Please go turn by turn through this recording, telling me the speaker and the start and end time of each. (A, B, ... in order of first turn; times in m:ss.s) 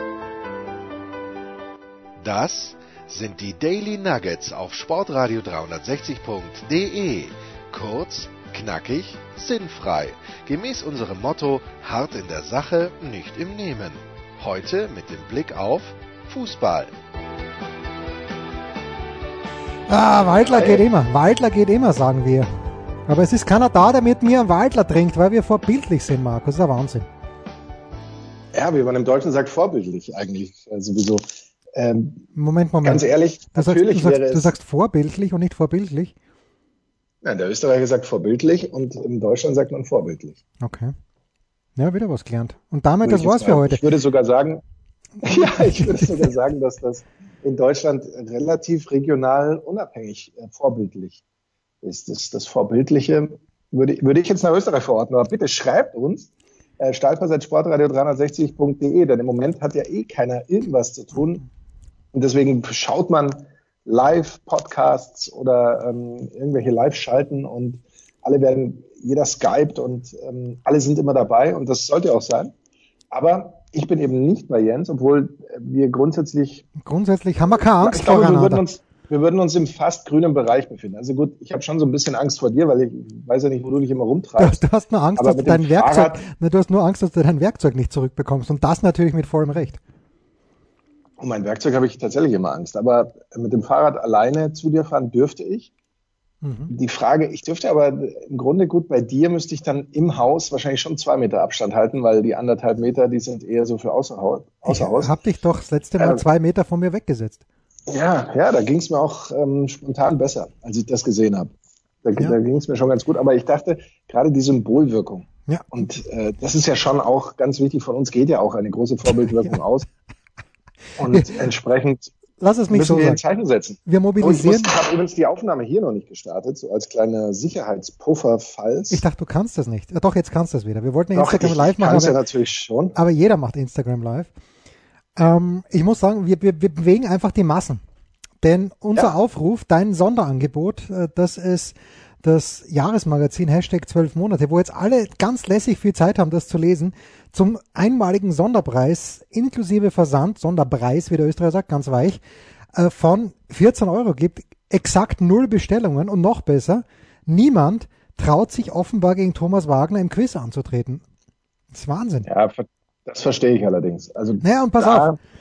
0:02.2-0:16.9 A
0:19.9-0:22.5 B
0:20.4-0:20.8 C
0:23.1-0:27.1 B
0:28.5-0:32.2 C
0:32.4-0:36.1 B
0:32.8-0:34.6 C
0:37.2-0:40.4 C
0:40.6-0:40.9 B
0:41.8-0:43.8 B
0:43.0-0:44.6 C
0:45.2-0:51.2 C
0:45.2-0:46.2 B
0:51.8-1:01.4 C
1:02.1-1:12.5 C
1:13.1-1:16.7 C
1:16.8-1:18.6 B
1:17.8-1:24.6 C
1:24.4-1:29.8 B
1:25.2-1:26.2 C
1:31.2-1:35.7 C
1:36.4-1:36.7 B
1:36.7-1:45.1 C
1:44.7-1:47.4 B
1:46.0-1:46.2 C
1:47.9-1:59.9 C
1:55.5-1:55.7 B
2:01.0-2:02.1 C
2:02.4-2:03.2 B
2:02.7-2:09.0 C
2:03.9-2:04.7 B
2:08.9-2:12.2 B
2:11.2-2:13.0 C
2:13.0-2:14.3 B
2:15.2-2:17.8 B
2:18.4-2:32.2 B
2:32.8-2:41.0 B
2:41.7-2:42.3 B
2:42.3-2:45.2 C
2:44.4-2:45.1 B